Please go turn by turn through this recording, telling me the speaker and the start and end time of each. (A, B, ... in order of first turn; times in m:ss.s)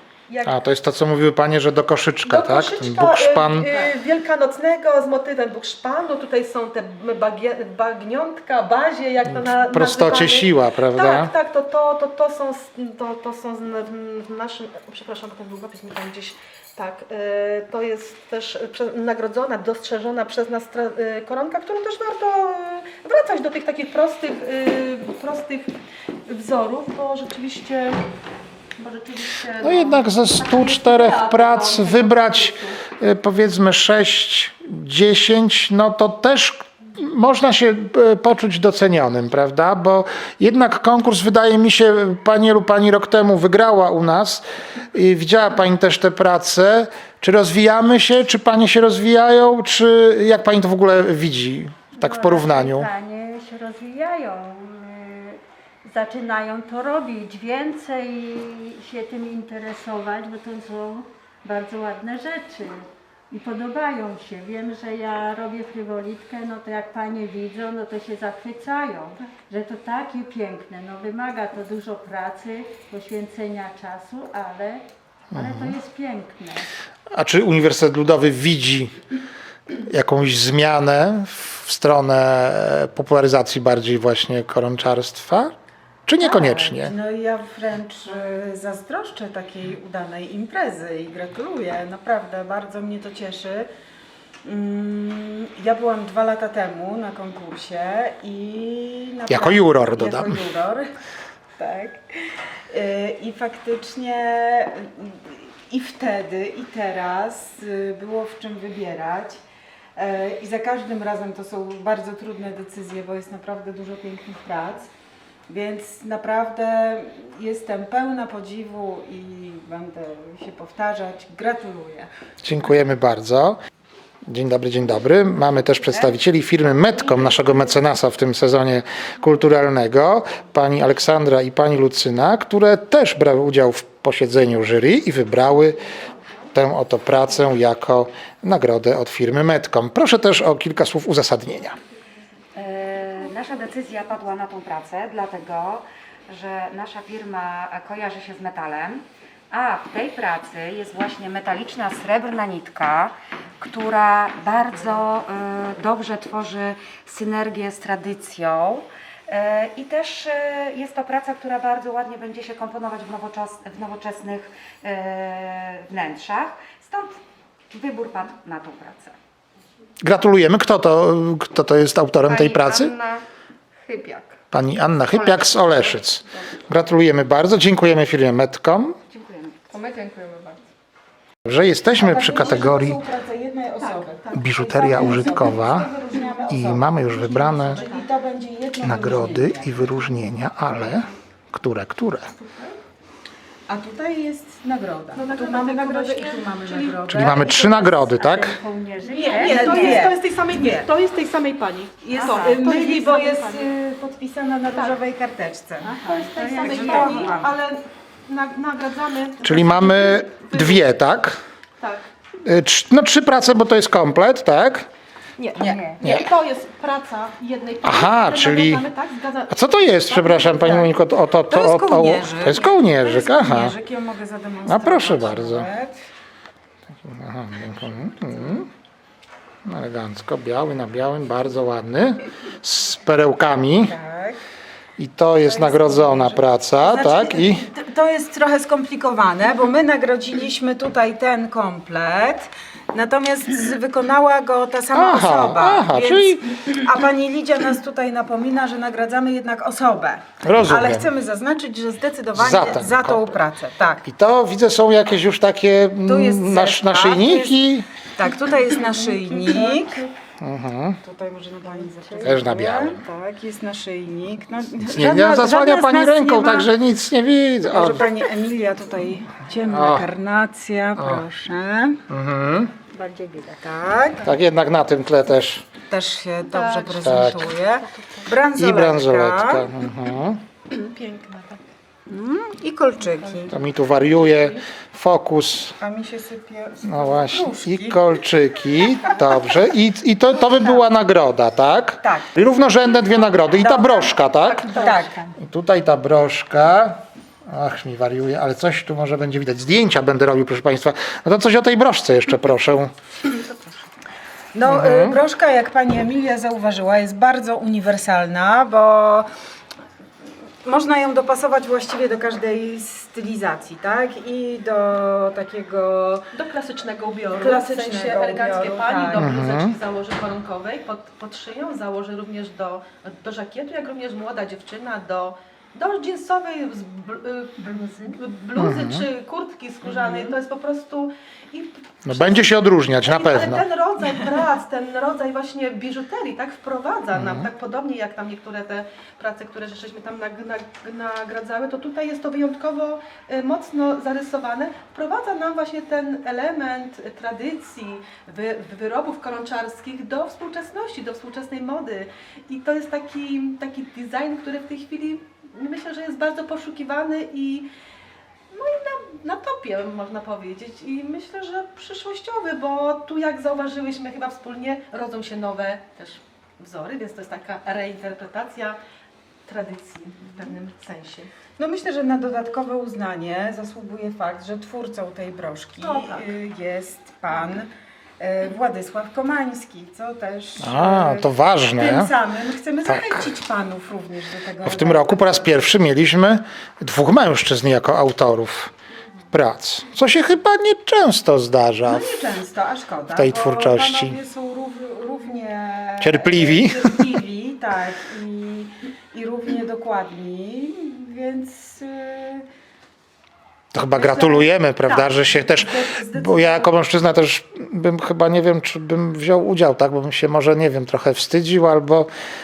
0:00.3-0:00.6 A
0:00.4-0:03.7 B
0:02.2-0:25.7 A
0:09.7-0:11.3 B
0:26.3-0:28.0 A
0:28.8-0:32.8 A
0:29.6-0:52.9 B
0:51.9-1:16.7 C
1:15.3-1:15.7 B
1:17.1-1:19.0 B
1:19.8-1:26.9 B
1:26.2-1:33.7 D
1:34.4-1:40.9 D
1:39.3-1:40.4 B
1:41.6-1:49.4 D
1:50.0-1:54.9 D
1:55.5-2:02.1 D
2:02.4-2:03.6 B
2:04.3-2:15.8 B
2:16.5-2:21.8 B
2:22.5-2:49.1 E
2:50.0-2:52.9 B
2:52.2-2:53.2 F
2:53.8-2:54.4 F
2:54.5-2:59.0 B
2:55.0-2:56.5 F
2:59.1-2:59.6 E
2:59.7-3:00.7 F
3:01.4-3:03.0 B
3:01.9-3:09.9 D
3:03.8-3:04.3 A
3:04.3-3:05.9 B
3:04.8-3:05.6 A
3:06.5-3:07.8 B
3:07.7-3:08.1 A
3:08.8-3:12.3 B
3:10.8-3:11.0 A
3:12.3-3:12.8 A
3:13.7-3:17.6 D
3:15.1-3:17.6 A
3:17.1-3:18.6 B
3:17.3-3:20.1 C
3:19.0-3:23.7 A
3:19.2-3:20.9 D
3:22.0-3:27.5 D
3:22.1-3:22.7 C
3:24.7-3:25.0 A
3:25.8-3:27.4 C
3:26.0-3:31.2 A
3:29.4-3:31.4 B
3:32.4-3:34.9 B
3:35.4-3:40.9 A
3:35.6-3:35.9 D
3:35.6-3:36.0 C
3:36.0-3:36.3 B
3:37.8-3:38.9 B
3:39.5-3:43.8 B
3:41.5-3:46.0 D
3:44.6-3:45.7 B
3:47.0-3:48.7 B
3:48.1-3:48.7 D
3:49.6-3:54.0 B
3:53.8-3:54.4 D
3:55.0-3:57.6 B
3:55.4-4:14.0 D
4:04.9-4:06.6 B
4:10.4-4:11.1 B
4:12.3-4:13.4 B
4:14.0-4:17.9 B
4:16.0-4:20.0 D
4:18.7-4:20.1 C
4:20.4-4:21.0 B
4:21.0-4:26.7 D
4:21.6-4:22.4 C
4:22.2-4:23.0 B
4:24.9-4:28.1 B
4:27.6-4:32.0 D
4:29.7-4:30.1 B
4:31.0-4:31.2 B
4:32.1-4:32.7 B
4:32.9-4:33.7 C
4:33.6-4:34.3 D
4:34.2-4:35.6 B
4:35.9-4:39.7 D
4:36.5-4:38.3 A
4:37.0-4:37.5 B
4:38.5-4:40.4 B
4:40.7-4:41.6 A
4:42.1-4:43.5 D
4:43.2-4:43.5 A
4:43.5-4:45.8 B
4:44.3-4:44.6 A
4:45.8-4:48.2 D
4:46.8-4:54.7 B
4:48.8-4:49.5 D
4:50.3-4:50.8 D
4:52.0-4:52.3 D
4:53.3-4:55.1 A
4:54.7-4:55.3 D
4:55.4-5:02.9 B
5:03.3-5:03.7 A
5:04.5-5:09.3 D
5:04.6-5:05.2 B
5:10.6-5:16.3 D
5:16.3-5:57.7 A
5:17.3-5:19.4 D
5:19.2-5:19.7 B
5:27.6-5:28.2 C
5:28.6-5:29.0 B
5:32.0-5:33.6 B
5:37.1-5:37.5 B
5:58.5-6:08.8 A
6:09.5-6:11.3 A
6:11.6-6:25.6 D
6:15.8-6:16.3 A
6:20.6-6:22.1 B
6:22.8-6:23.3 B
6:24.6-6:28.7 B
6:29.3-6:32.3 B
6:31.8-6:42.4 D
6:33.1-6:34.2 B
6:36.0-6:37.1 B
6:43.7-6:52.1 B
6:43.9-6:46.7 D